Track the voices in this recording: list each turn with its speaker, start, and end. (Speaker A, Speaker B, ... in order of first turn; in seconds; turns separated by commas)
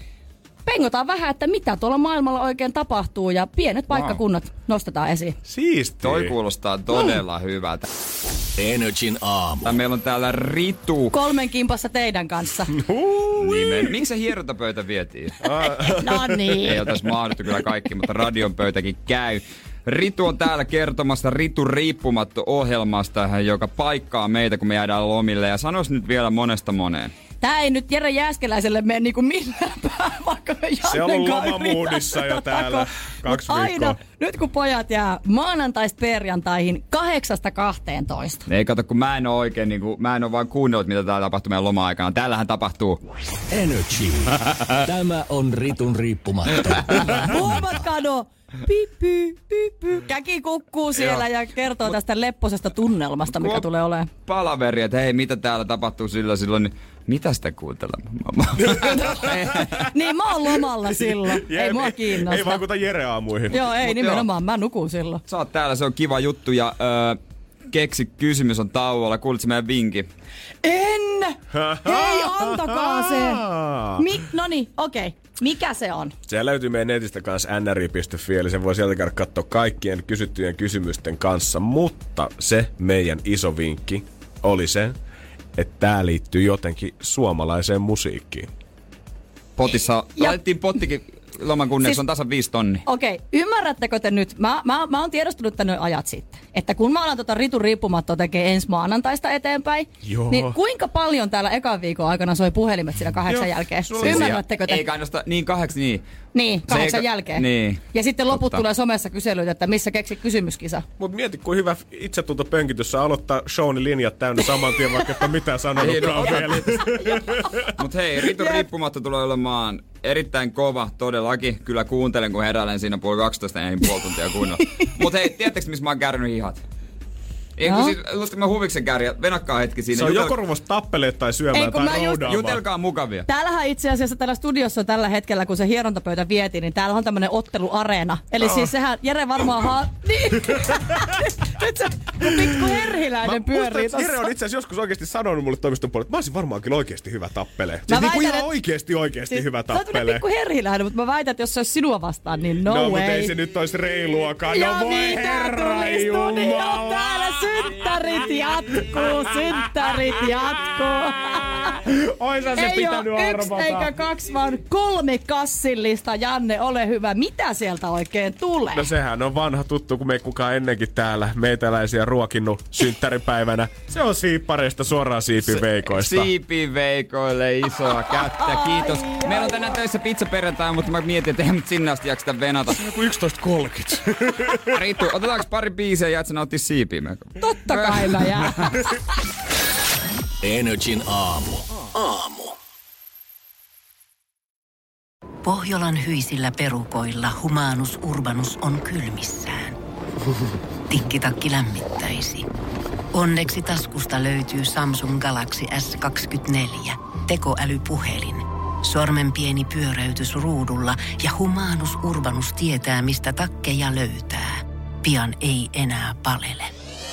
Speaker A: 0.7-5.4, Speaker B: 3.9-4.2, Speaker C: 5.5-6.3, Speaker B: 6.0-7.9, Speaker D: 8.6-9.8, Speaker B: 9.7-11.2, Speaker A: 11.1-12.8, Speaker C: 12.7-13.9, Speaker B: 13.4-15.4, Speaker C: 15.4-16.8, Speaker A: 16.0-16.8, Speaker B: 16.6-27.1, Speaker A: 27.4-38.4, Speaker C: 30.8-34.0, Speaker B: 38.5-43.0, Speaker D: 43.5-47.6, Speaker A: 47.2-54.1, Speaker B: 50.9-51.3, Speaker B: 53.4-53.7, Speaker B: 54.2-59.9, Speaker C: 58.6-59.7, Speaker A: 59.9-62.6, Speaker C: 60.9-63.7, Speaker A: 63.5-65.2, Speaker B: 63.7-64.3, Speaker B: 65.3-67.2, Speaker B: 67.7-70.1, Speaker A: 70.6-73.5, Speaker C: 71.5-74.1, Speaker A: 74.0-76.2, Speaker C: 76.3-85.0, Speaker C: 85.6-88.5, Speaker B: 89.6-92.8, Speaker A: 92.9-104.8, Speaker C: 100.0-100.6, Speaker C: 103.3-104.4, Speaker B: 104.0-106.0, Speaker A: 106.3-110.8, Speaker B: 106.7-108.6, Speaker C: 111.0-117.7, Speaker B: 115.8-116.9, Speaker B: 117.8-126.6, Speaker A: 118.3-118.7, Speaker A: 124.6-125.1, Speaker B: 127.6-130.3, Speaker A: 127.6-128.0, Speaker C: 129.9-132.6, Speaker A: 131.5-132.2, Speaker B: 132.2-133.3, Speaker A: 133.3-144.3, Speaker C: 138.4-138.7, Speaker C: 139.4-139.7, Speaker C: 140.3-141.1, Speaker C: 142.2-150.2, Speaker A: 147.9-148.5, Speaker A: 149.3-153.3, Speaker C: 152.7-158.1, Speaker A: 154.5-161.8, Speaker C: 158.7-160.1, Speaker C: 161.9-164.0, Speaker A: 162.5-168.9, Speaker C: 168.7-176.3, Speaker B: 175.4-182.8, Speaker A: 178.1-179.8, Speaker C: 182.7-184.8, Speaker B: 184.7-188.8, Speaker A: 187.4-188.9, Speaker D: 190.4-192.6, Speaker E: 195.4-199.8, Speaker E: 200.9-202.5, Speaker E: 203.1-216.7